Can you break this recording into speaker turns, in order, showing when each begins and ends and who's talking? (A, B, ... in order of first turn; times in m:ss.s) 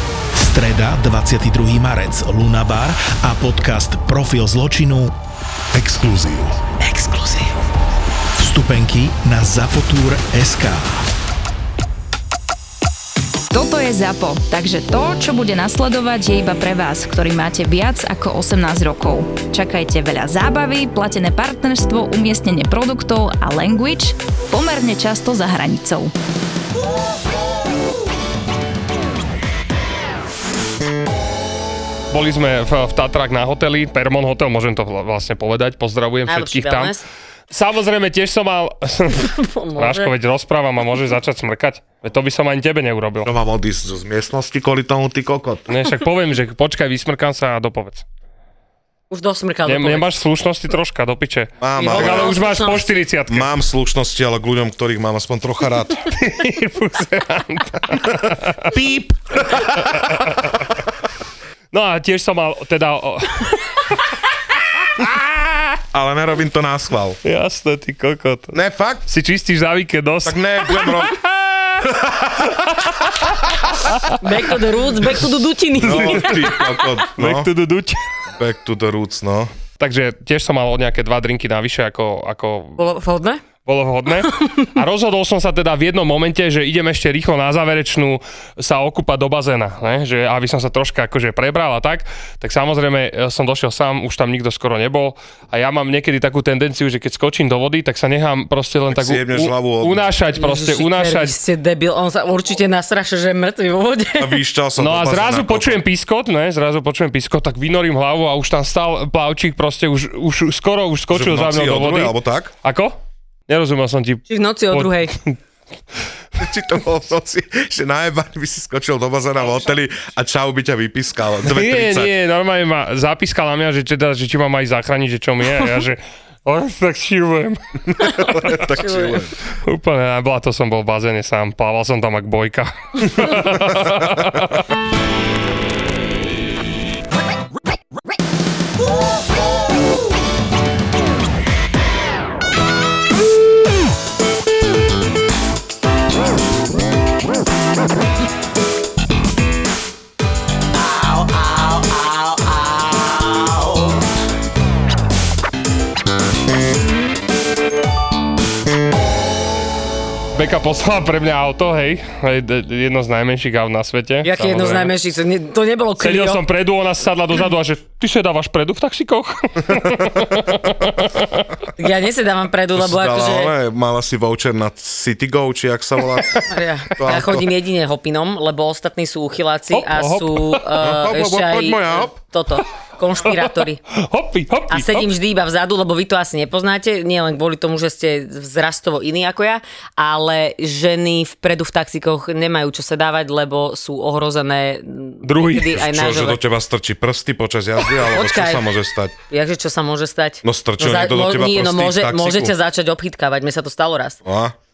0:00.4-0:05.1 A
0:05.7-0:07.5 A
0:08.4-0:11.1 A
0:13.5-0:26.1 B
0:32.1-0:37.0 C
0:36.2-0:37.1 D
0:37.5-0:43.3 C
0:39.1-0:40.1 D
0:43.2-0:45.8 E
0:45.7-0:48.0 C
0:49.1-0:50.1 D
0:49.7-0:53.5 C
0:51.6-0:52.4 E
0:51.8-0:53.1 D
0:53.3-0:56.1 E
0:56.0-0:58.7 C
0:58.7-1:00.1 E
0:59.6-1:00.7 C
1:01.7-1:04.1 C
1:05.0-1:05.6 C
1:05.9-1:07.2 E
1:07.2-1:08.6 C
1:08.5-1:09.1 E
1:09.1-1:11.9 C
1:10.2-1:11.2 E
1:11.8-1:12.6 E
1:12.5-1:13.3 C
1:13.9-1:14.2 C
1:14.2-1:17.0 D
1:15.8-1:17.5 E
1:15.9-1:16.5 C
1:17.2-1:18.0 C
1:18.3-1:19.5 E
1:19.8-1:22.8 C
1:22.8-1:23.4 D
1:23.6-1:41.4 C
1:24.4-1:24.7 D
1:38.9-1:40.1 E
1:40.4-1:44.4 D
1:44.2-1:45.8 E
1:44.8-1:55.4 C
1:51.1-1:52.5 E
1:54.3-1:55.2 D
1:56.4-2:02.1 E
2:01.4-2:08.7 C
2:07.9-2:09.4 E
2:08.1-2:09.2 D
2:09.6-2:14.7 C
2:40.3-2:45.0 C
2:44.2-2:46.4 D
2:46.0-2:51.7 C
2:50.3-2:50.6 E
2:51.8-2:53.5 D
2:52.8-2:57.5 E
2:56.5-3:03.8 D
2:59.7-3:00.7 C
3:00.8-3:02.2 E
3:03.2-3:05.1 C
3:04.7-3:16.4 D
3:15.2-3:15.9 C
3:15.6-3:19.2 E
3:17.8-3:18.7 D
3:19.3-3:24.2 D
3:20.4-3:22.6 E
3:24.2-3:24.5 E